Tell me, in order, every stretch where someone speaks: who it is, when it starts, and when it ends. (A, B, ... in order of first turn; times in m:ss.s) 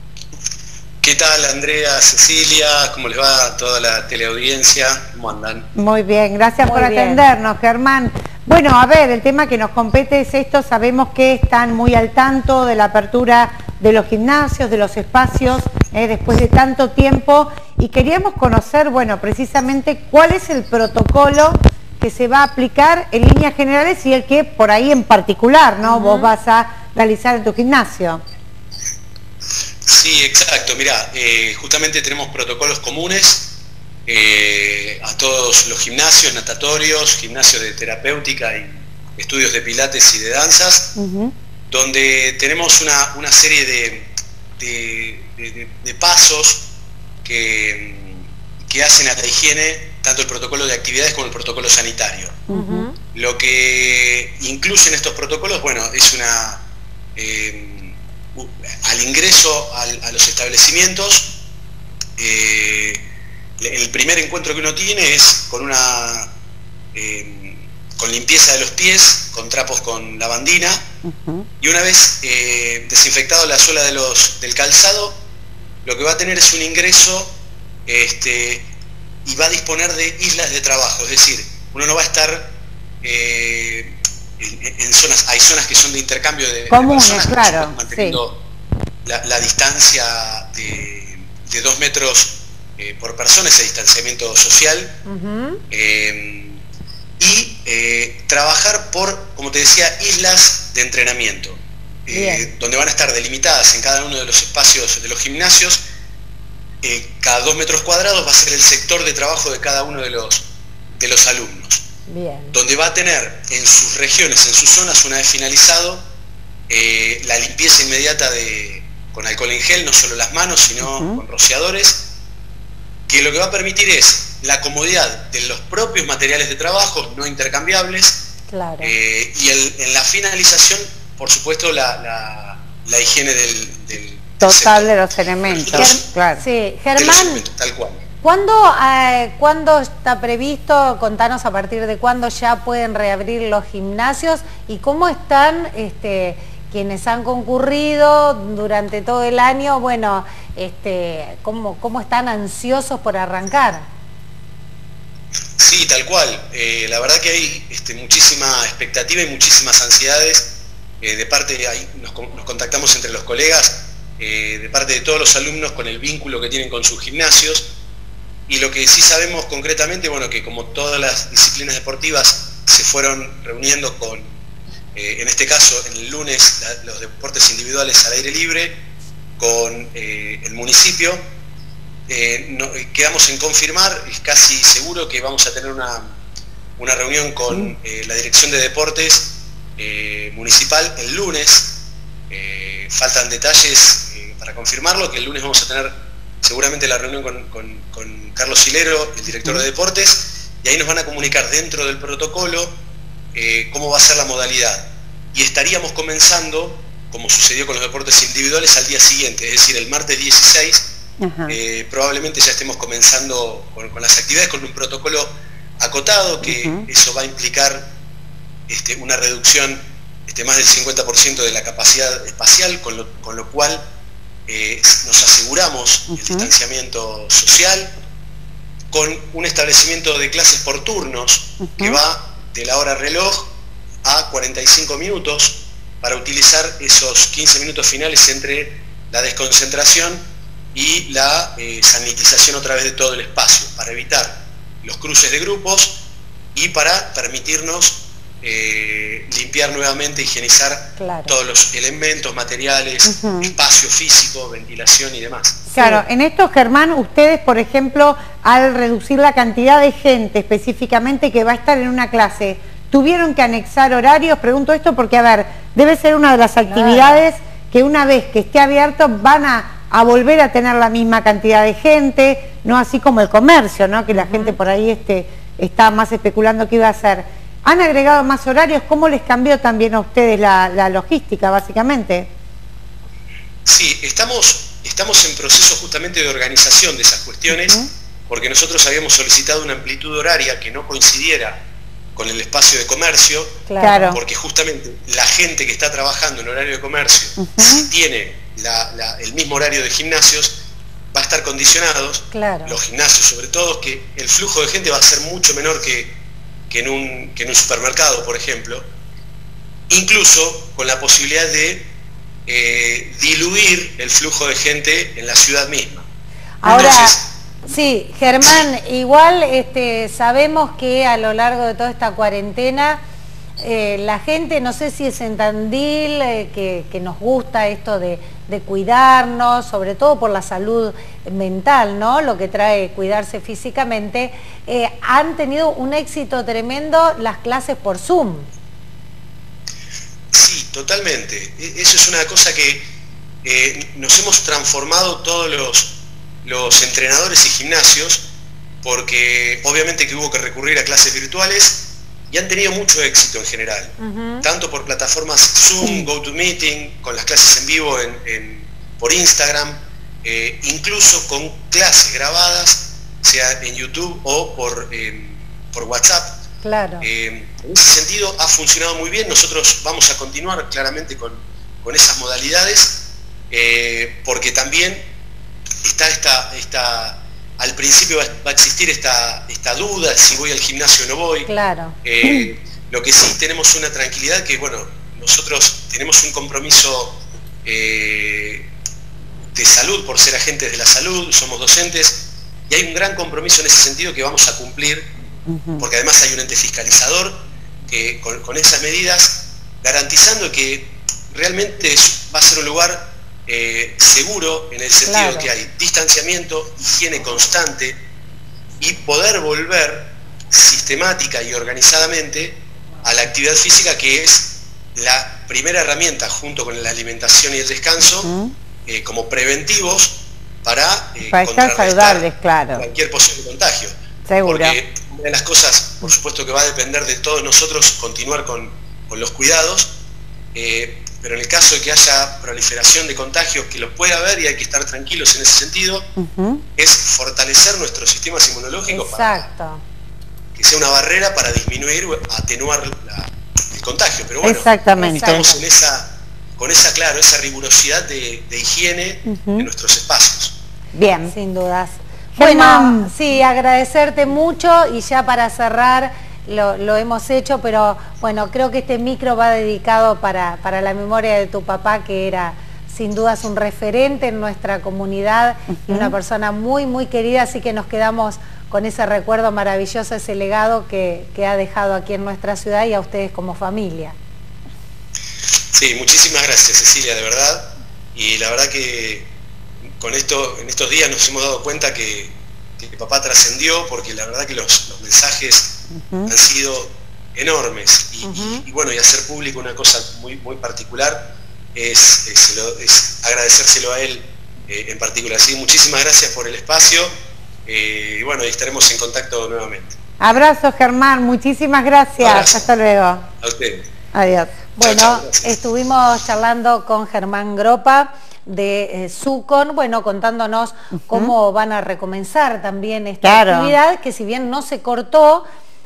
0:01.0-0:05.7 A
0:05.8-0:28.2 B
0:06.6-0:07.3 C
0:25.8-0:26.4 C
0:29.9-0:33.5 A
0:34.1-0:41.0 A
0:41.0-0:41.3 B
0:41.7-0:46.7 A
0:47.2-0:52.4 A
0:52.5-0:52.9 B
0:52.5-0:53.0 C
0:53.1-0:56.6 A
0:57.2-1:01.4 A
1:02.2-1:03.0 A
1:03.6-1:06.3 A
1:07.0-1:10.9 A
1:11.0-1:11.5 B
1:11.6-1:15.2 A
1:15.8-1:17.4 A
1:17.9-1:18.7 A
1:19.2-1:28.4 A
1:26.7-1:28.2 B
1:29.0-1:35.0 A
1:35.1-1:35.6 C
1:35.7-1:36.6 A
1:37.2-1:45.8 A
1:42.1-1:42.5 C
1:46.8-1:51.8 A
1:52.1-1:52.6 C
1:52.5-1:56.0 A
1:56.7-2:02.1 A
2:00.8-2:01.2 B
2:03.1-2:08.3 A
2:08.5-2:08.9 C
2:08.8-2:16.0 A
2:14.4-2:16.4 B
2:15.7-2:17.4 C
2:17.0-2:18.0 A
2:18.2-2:33.9 C
2:35.6-2:47.7 A
2:48.5-2:54.4 A
2:55.0-2:58.8 A
2:59.4-3:01.3 A
3:02.1-3:06.2 A
3:06.8-3:22.8 A
3:07.5-3:07.8 B
3:23.4-3:30.9 A
3:31.2-3:31.6 B
3:31.5-3:37.9 A
3:36.4-3:36.8 B
3:38.7-3:43.8 A
3:44.5-3:47.9 A
3:46.1-3:46.5 B
3:48.9-3:53.5 A
3:51.6-3:52.0 B
3:54.0-4:06.0 A
4:06.6-4:15.6 A
4:11.0-4:11.3 C
4:13.0-4:13.5 B
4:15.7-4:16.0 C
4:15.7-4:42.3 B
4:26.6-4:27.3 C
4:34.1-4:34.6 C
4:43.6-4:51.6 A
4:47.5-4:47.9 B
4:52.2-5:00.6 A
4:53.7-4:54.2 C
4:53.8-4:54.2 B
4:57.4-4:57.9 B
5:01.1-5:06.2 A
5:02.3-5:02.8 C
5:06.7-5:08.9 A
5:09.9-5:11.9 A
5:12.5-5:16.1 A
5:16.6-5:23.0 C
5:16.6-5:17.3 A
5:23.6-5:38.5 C
5:40.3-5:42.9 A
5:43.4-5:48.3 A
5:48.8-6:06.4 A
5:54.0-5:54.5 C
5:55.8-5:56.1 B
6:06.6-6:07.1 C
6:07.0-6:15.1 A
6:15.8-6:21.5 A
6:21.5-6:22.0 C
6:22.0-6:28.7 A
6:22.2-6:22.5 B
6:29.5-6:35.1 A
6:35.5-6:35.9 B
6:35.8-6:48.0 A
6:45.1-6:45.5 C
6:48.8-6:58.3 A
6:58.2-6:58.5 B
6:58.9-7:10.0 A
7:01.3-7:02.9 B
7:04.3-7:04.8 B
7:10.5-7:16.1 A
7:16.2-7:16.6 B
7:16.8-7:19.5 A
7:18.9-7:19.8 C
7:20.6-7:30.6 A
7:24.4-7:25.4 B
7:25.0-7:25.6 C
7:29.3-7:29.7 B
7:30.9-7:31.4 B
7:31.3-7:54.2 C
7:32.4-7:33.1 B
7:45.8-7:46.1 B
7:55.7-7:59.3 A
8:00.0-8:17.2 A
8:05.9-8:06.3 B
8:08.2-8:08.6 C
8:17.7-8:20.0 A
8:20.2-8:23.2 B
8:22.2-8:22.7 A
8:23.4-8:23.9 A
8:24.1-8:24.6 B
8:24.8-8:35.4 C
8:24.8-8:25.5 A
8:33.2-8:33.8 B